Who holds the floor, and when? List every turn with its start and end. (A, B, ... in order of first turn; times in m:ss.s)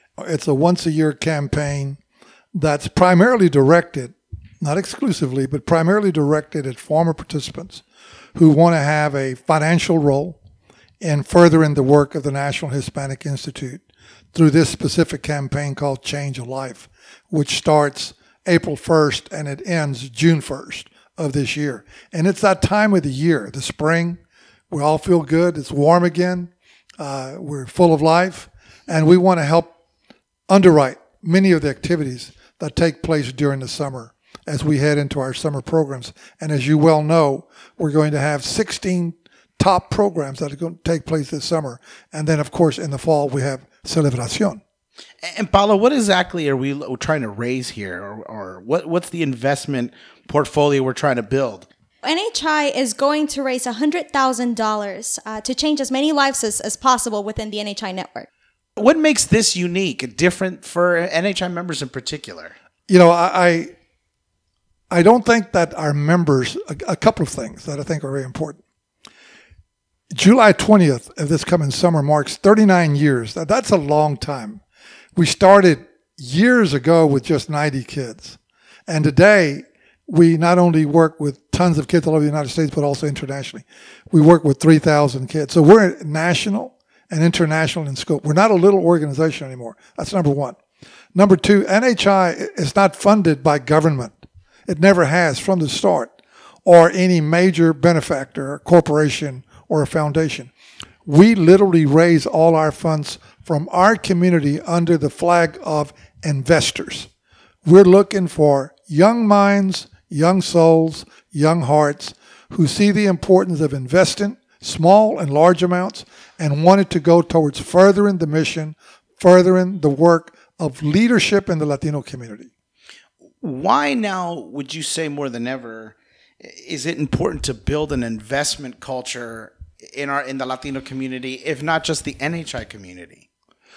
0:00.2-0:02.0 A
0:02.5-0:07.8 A
0:08.4-0:10.4 A
0:11.0-0:13.8 A
0:14.3-0:24.2 A
0:24.7-0:29.7 A
0:30.5-0:44.6 A
0:45.2-0:51.7 B
0:52.0-0:58.3 C
0:58.8-1:02.6 B
1:02.9-1:03.7 A
1:04.9-1:08.6 A
1:10.1-1:14.6 A
1:15.2-1:30.6 A
1:31.2-1:36.1 A
1:36.6-1:40.5 A
1:41.1-1:47.1 A
1:47.6-2:02.5 A
2:03.4-2:13.3 B